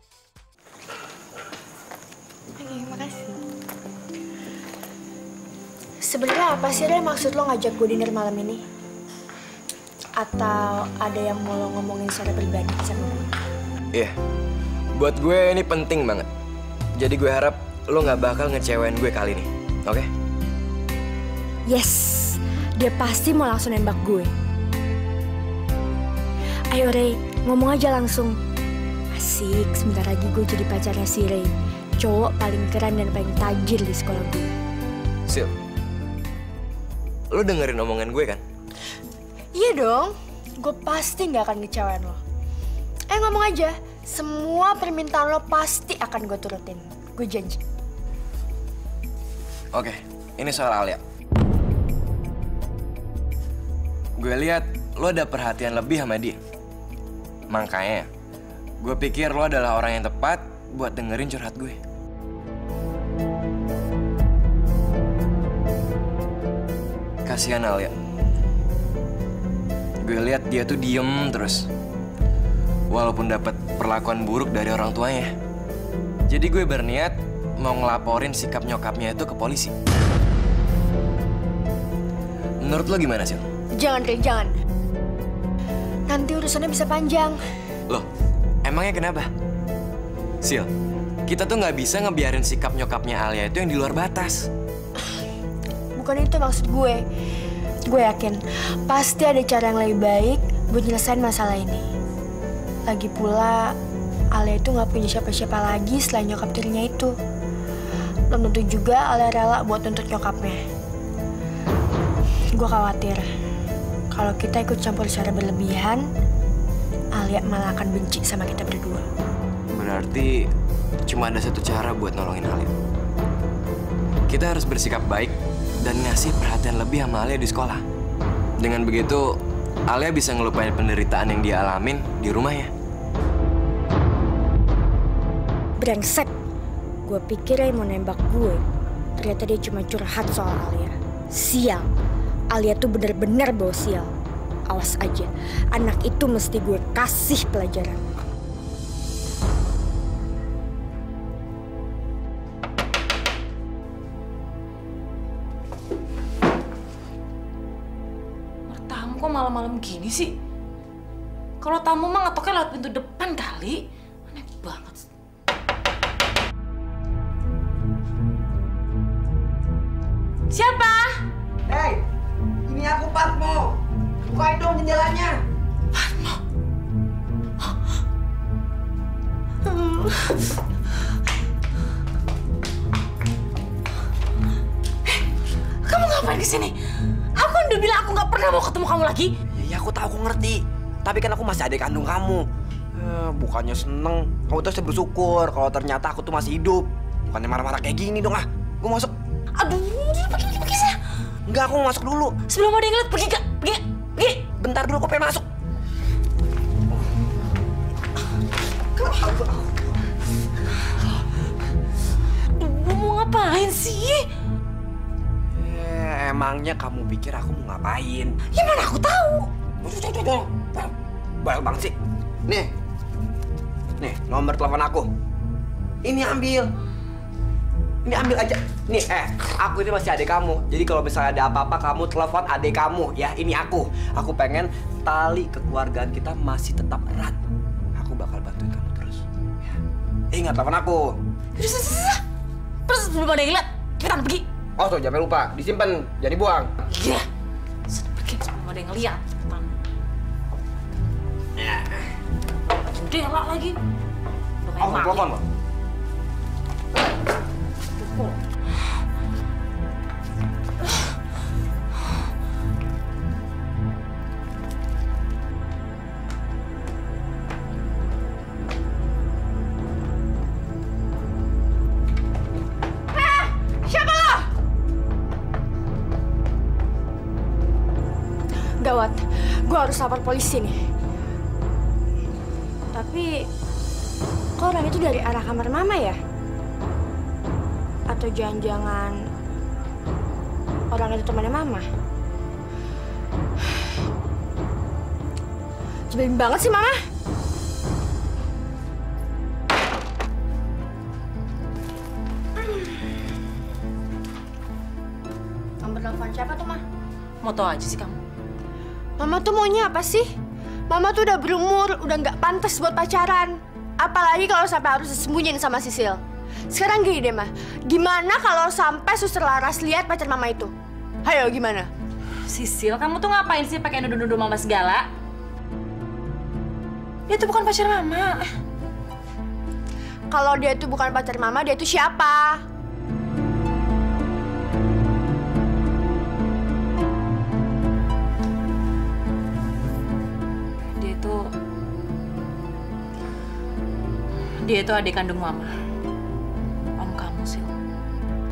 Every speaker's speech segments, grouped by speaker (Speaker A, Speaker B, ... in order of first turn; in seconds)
Speaker A: 2.6-3.4, 6.0-8.6, 10.2-13.3, 21.7-24.3, 26.7-28.4, 29.1-34.5, 39.5-42.2, 43.1-47.6, 83.8-84.5, 86.1-87.4, 96.0-97.0, 97.8-101.8, 102.9-103.8, 104.3-107.1, 108.3-110.6, 112.6-113.3, 114.1-116.0, 117.2-119.1, 135.8-136.3, 137.0-138.6, 139.2-141.9, 142.5-144.1, 144.7-148.0, 273.1-274.5, 278.8-280.8, 282.9-283.4, 284.6-286.2, 288.1-289.2, 290.9-291.9, 296.1-297.0, 305.8-306.8, 309.2-310.3, 310.9-320.7, 321.2-321.9, 330.3-332.6
Speaker B: 14.9-16.3, 17.0-20.1, 37.3-38.4, 49.7-51.0, 54.2-56.4, 57.5-58.1, 58.8-61.8, 67.2-67.9, 70.0-71.7, 72.9-75.3, 76.3-79.7, 82.6-83.4, 88.6-89.3, 90.4-90.7, 91.3-94.5, 119.7-120.5, 121.1-122.7, 124.3-127.8, 128.6-129.3, 129.9-132.7
Speaker C: 158.7-160.3, 161.6-165.0, 170.5-171.2, 176.0-176.4, 179.7-180.4, 185.8-186.8, 187.3-189.3, 199.6-201.0, 202.5-204.4, 212.5-214.2, 218.5-219.5, 241.6-242.2, 242.9-244.4, 246.9-247.2, 247.9-249.7, 252.9-253.8, 254.6-255.3, 258.0-258.4, 307.4-308.2, 322.5-325.1, 327.3-328.5, 341.0-341.5, 344.6-345.7, 347.0-347.7
Speaker D: 171.7-172.0, 172.7-175.4, 189.5-192.4, 192.9-199.1, 201.5-202.3, 204.4-205.4, 209.1-209.3, 215.5-218.4, 219.8-221.9, 224.0-225.1, 226.0-226.7, 228.0-237.4, 237.9-239.7, 240.3-241.2, 244.8-246.7, 251.6-251.8, 254.8-255.4